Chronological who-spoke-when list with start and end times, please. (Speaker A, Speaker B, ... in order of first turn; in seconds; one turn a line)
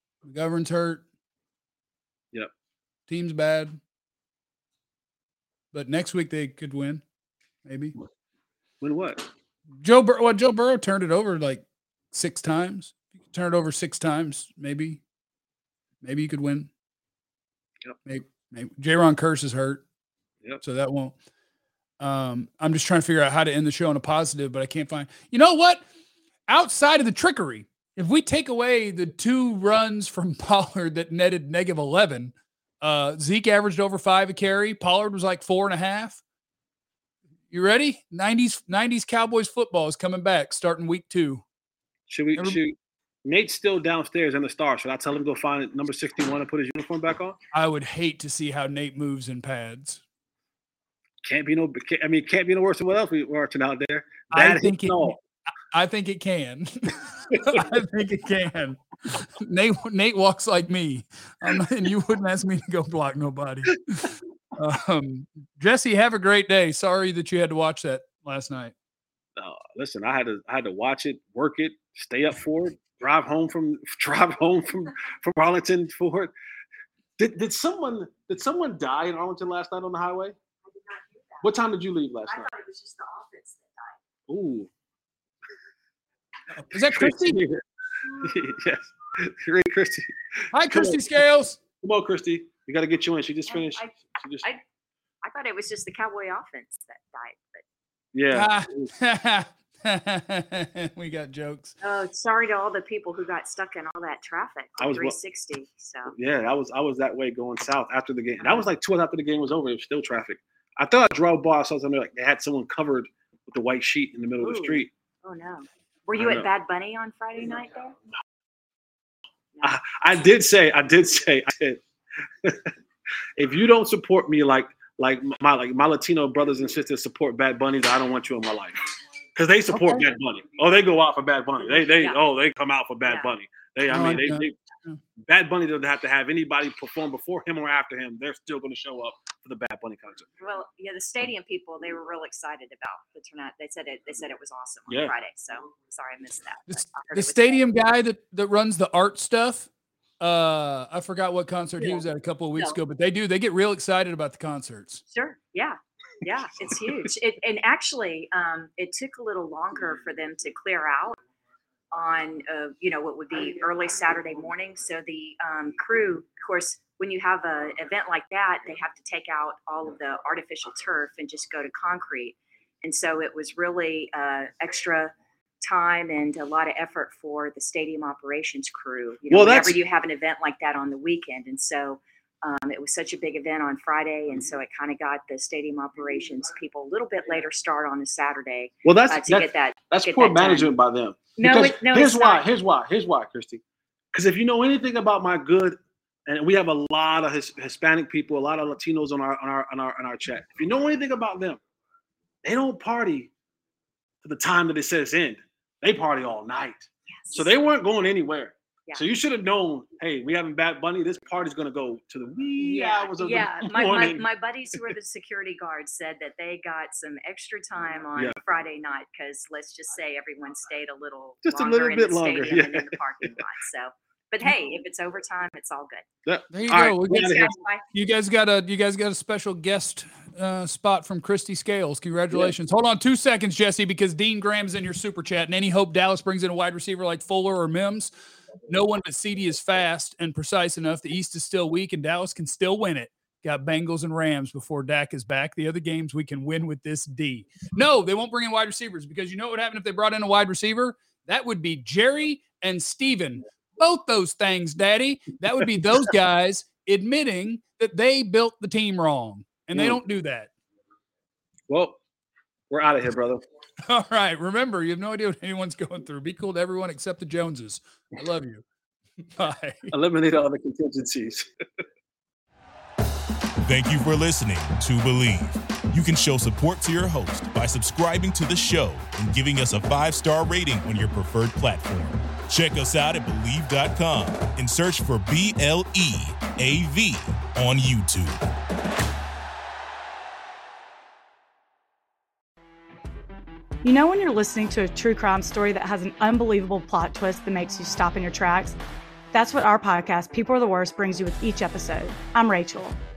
Speaker A: 0.2-1.0
Speaker A: 3.1-3.8
Speaker A: 5.7-7.0
Speaker A: 7.6-7.9
Speaker B: 8.8-9.2
Speaker A: 9.8-15.0
Speaker A: 16.0-16.7
Speaker A: 18.1-19.8
Speaker A: 20.6-21.1
Speaker A: 22.0-25.8
Speaker A: 26.5-36.2
Speaker A: 37.5-41.4
Speaker B: 42.1-47.4
Speaker A: 47.5-50.0
Speaker B: 51.2-55.1
Speaker A: 54.3-55.2
Speaker A: 55.7-68.7
Speaker B: 69.4-76.3
Speaker B: 77.2-80.3
Speaker C: 80.6-81.5
Speaker B: 81.4-82.5
Speaker C: 82.3-84.0
Speaker B: 84.3-84.7
Speaker A: 86.5-87.4
Speaker B: 86.9-87.6
Speaker B: 88.2-90.1
Speaker A: 90.5-91.6
Speaker B: 90.7-91.0
Speaker B: 91.8-94.4
Speaker C: 93.5-94.6
Speaker C: 95.2-97.6
Speaker B: 98.1-98.9
Speaker A: 98.3-101.7
Speaker C: 101.8-106.1
Speaker B: 104.8-105.2
Speaker B: 106.2-114.9
Speaker C: 114.4-117.9
Speaker B: 116.2-116.5
Speaker B: 119.6-121.8
Speaker B: 122.4-122.7
Speaker B: 123.4-134.5
Speaker A: 129.7-130.0
Speaker C: 133.0-133.3
Speaker A: 133.9-135.0
Speaker B: 135.2-140.3
Speaker C: 140.4-147.6
Speaker B: 144.9-145.1
Speaker A: 146.7-149.7
Speaker A: 150.2-155.0
Speaker C: 151.8-152.0
Speaker C: 155.1-161.2
Speaker C: 161.9-190.7
Speaker B: 179.3-179.8
Speaker B: 188.8-193.6
Speaker C: 191.3-192.5
Speaker B: 194.1-201.6
Speaker B: 202.4-203.3
Speaker B: 204.2-214.2
Speaker C: 207.2-207.5
Speaker C: 212.6-226.1
Speaker B: 221.4-223.3
Speaker B: 226.2-227.5
Speaker A: 226.5-238.1
Speaker C: 227.1-227.8
Speaker A: 238.7-260.5
Speaker B: 259.7-260.0
Speaker B: 261.7-262.0
Speaker B: 262.7-263.4
Speaker A: 263.9-268.6
Speaker A: 269.4-269.9
Speaker B: 269.9-271.4
Speaker D: 273.6-288.4
Speaker E: 293.8-298.8
Speaker E: 299.3-302.9